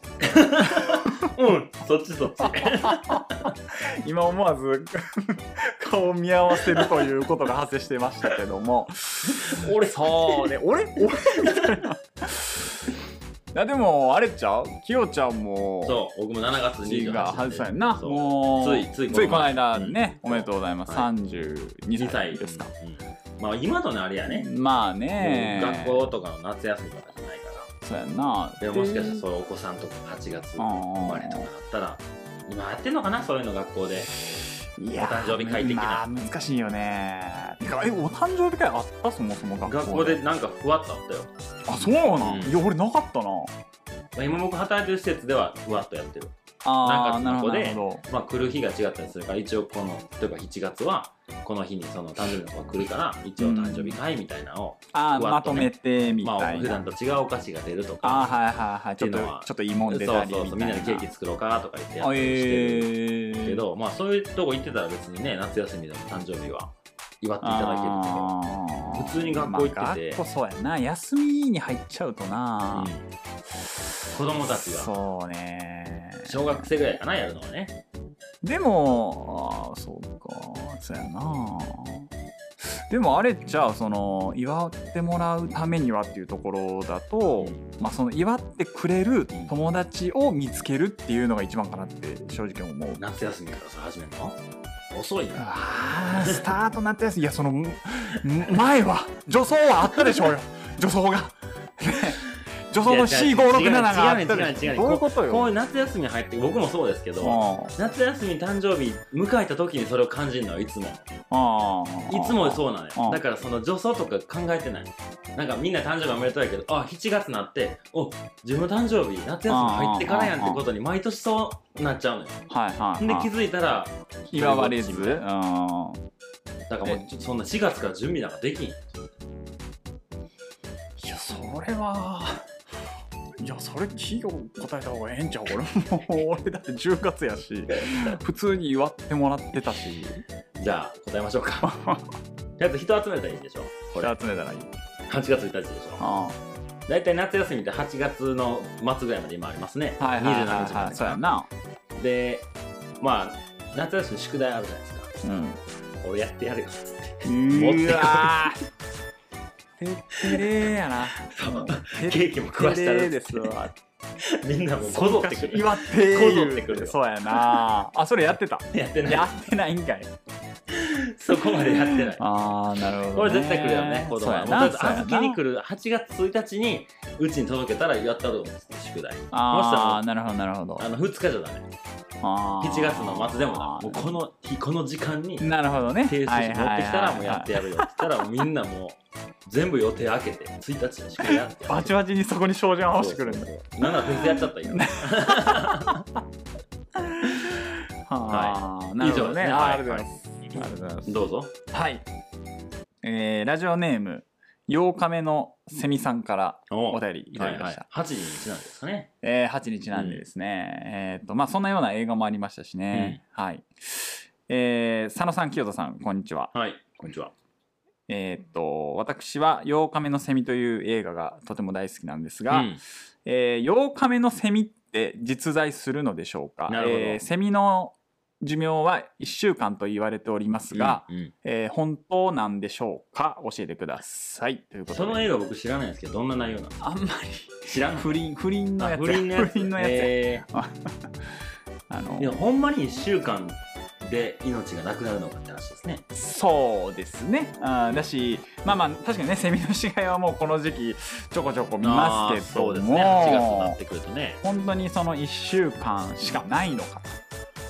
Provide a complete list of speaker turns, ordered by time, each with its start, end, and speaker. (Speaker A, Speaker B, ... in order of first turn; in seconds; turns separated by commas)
Speaker A: 0.2-3.5, Speaker B: 0.6-1.3, Speaker B: 2.5-12.9, Speaker A: 9.3-10.6, Speaker A: 11.3-11.8, Speaker B: 13.5-16.0, Speaker A: 15.8-21.1, Speaker B: 16.8-22.7, Speaker A: 22.0-24.5, Speaker B: 24.3-26.0, Speaker A: 25.2-27.7, Speaker B: 27.8-29.2, Speaker A: 28.6-34.1, Speaker B: 30.6-31.5, Speaker B: 34.8-40.2, Speaker A: 35.0-36.0, Speaker A: 39.6-41.3, Speaker B: 41.7-43.5, Speaker A: 42.2-42.6, Speaker A: 44.1-58.3, Speaker B: 46.6-48.0, Speaker B: 53.4-54.0, Speaker B: 54.9-56.8, Speaker B: 58.0-61.1, Speaker A: 59.0-68.3, Speaker B: 62.0-63.6, Speaker B: 67.4-72.9, Speaker A: 68.9-70.2, Speaker A: 72.7-73.1, Speaker A: 74.1-74.9, Speaker B: 74.5-76.7, Speaker A: 76.3-77.8, Speaker B: 78.4-82.1, Speaker B: 82.6-93.0, Speaker A: 93.0-94.4, Speaker A: 94.9-95.5, Speaker B: 95.4-105.5, Speaker A: 96.1-96.4, Speaker A: 102.8-111.0, Speaker B: 107.2-107.8, Speaker B: 111.3-113.2, Speaker A: 112.1-122.4, Speaker B: 119.5-120.6, Speaker B: 122.5-123.3, Speaker A: 123.0-125.2, Speaker B: 124.3-126.0, Speaker A: 126.7-128.8, Speaker B: 131.0-132.5, Speaker B: 133.4-140.2, Speaker A: 137.8-138.2, Speaker A: 140.6-141.7, Speaker B: 141.6-142.0, Speaker A: 142.6-144.1, Speaker B: 144.0-144.7, Speaker A: 145.1-146.0, Speaker B: 146.0-146.4, Speaker A: 146.9-151.2, Speaker B: 150.0-151.5, Speaker A: 151.9-152.5, Speaker A: 153.0-155.1, Speaker B: 155.2-155.6, Speaker A: 156.0-158.4, Speaker B: 157.2-158.6, Speaker B: 159.8-163.7, Speaker A: 160.2-167.7, Speaker B: 164.8-170.1, Speaker A: 168.7-169.3, Speaker A: 170.7-172.2, Speaker B: 171.5-175.4, Speaker A: 172.9-180.0, Speaker B: 179.3-180.9, Speaker A: 180.8-181.7, Speaker B: 182.2-184.2, Speaker A: 182.6-185.5, Speaker B: 185.4-188.1, Speaker A: 186.1-192.0, Speaker B: 191.2-196.0, Speaker A: 192.9-196.1, Speaker B: 197.0-202.0, Speaker A: 197.2-197.5, Speaker A: 198.3-201.5, Speaker B: 203.0-207.9, Speaker A: 206.7-209.1, Speaker B: 209.2-216.5, Speaker A: 209.9-210.2, Speaker A: 212.9-213.2, Speaker A: 216.5-217.3, Speaker B: 218.1-235.3, Speaker A: 222.5-222.8, Speaker A: 226.7-227.2, Speaker A: 230.7-231.3, Speaker A: 234.9-236.8, Speaker B: 236.8-240.9, Speaker A: 237.7-238.2, Speaker A: 238.8-240.4, Speaker B: 241.9-242.5, Speaker A: 242.2-246.0, Speaker B: 246.1-253.8, Speaker A: 251.8-254.4, Speaker B: 254.4-257.2